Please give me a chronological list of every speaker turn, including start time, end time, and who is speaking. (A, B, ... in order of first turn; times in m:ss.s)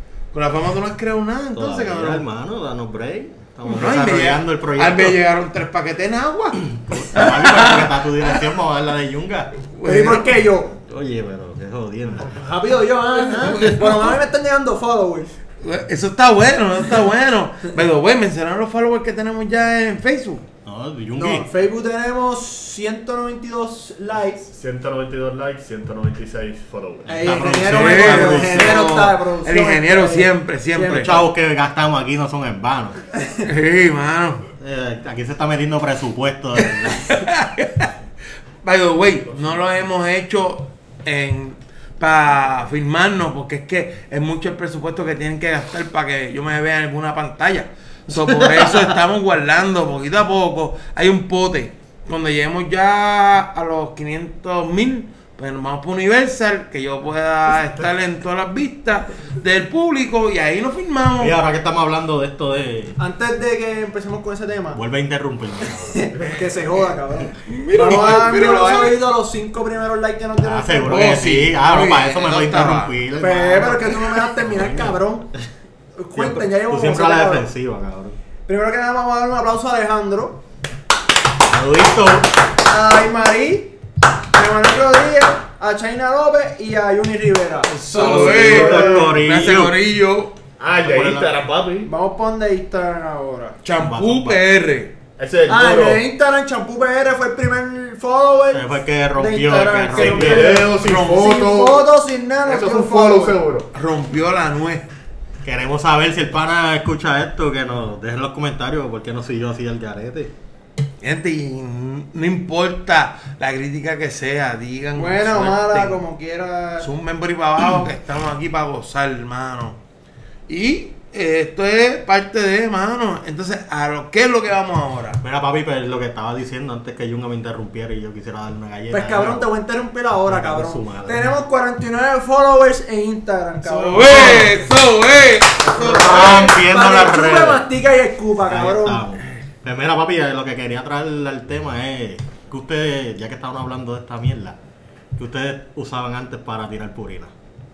0:00.3-0:02.2 A
0:01.5-0:05.2 B
0:03.6-0:08.0 A
0:06.8-0:09.5 B
0:09.7-0:10.3 A
0:09.8-0:10.7 C
0:10.8-0:12.3 B
0:12.3-0:15.3 C
0:13.2-0:14.2 A
0:15.6-0:20.4 A
0:20.6-0:21.5 B
0:21.2-0:24.5 C
0:24.5-0:27.4 D
0:27.1-0:31.2 C
0:27.2-0:28.9 B
0:27.6-0:31.2 A
0:30.9-0:33.0 B
0:33.3-0:34.4 A
0:34.6-0:37.2 B
0:36.6-0:37.9 A
0:38.6-1:01.3 A
1:01.2-1:03.0 B
1:03.0-1:04.8 C
1:04.7-1:06.0 B
1:05.7-1:11.2 C
1:07.4-1:09.0 A
1:10.4-1:15.0 B
1:10.8-1:12.9 A
1:13.2-1:15.3 C
1:16.0-1:17.5 C
1:16.1-1:18.2 B
1:18.4-1:20.4 C
1:21.4-1:22.3 B
1:22.6-1:23.7 C
1:24.3-1:29.1 C
1:27.7-1:30.3 A
1:27.9-1:29.8 B
1:28.1-1:29.0 D
1:30.6-1:31.9 D
1:30.7-1:31.4 B
1:31.8-1:33.6 C
1:33.6-1:34.9 A
1:33.8-1:34.4 B
1:35.2-1:36.0 D
1:35.5-1:43.4 C
1:38.5-1:40.7 B
1:39.9-1:41.9 D
1:42.4-1:43.7 D
1:43.7-1:44.9 A
1:45.4-1:50.3 B
1:51.0-1:56.0 A
1:55.0-1:56.9 C
1:56.8-1:59.8 A
2:00.5-2:05.2 A
2:05.2-2:09.4 B
2:08.9-2:14.6 C
2:10.3-2:11.3 B
2:13.6-2:16.5 A
2:14.0-2:14.6 B
2:15.8-2:17.7 B
2:15.8-2:19.0 C
2:18.5-2:24.6 B
2:25.2-2:27.3 B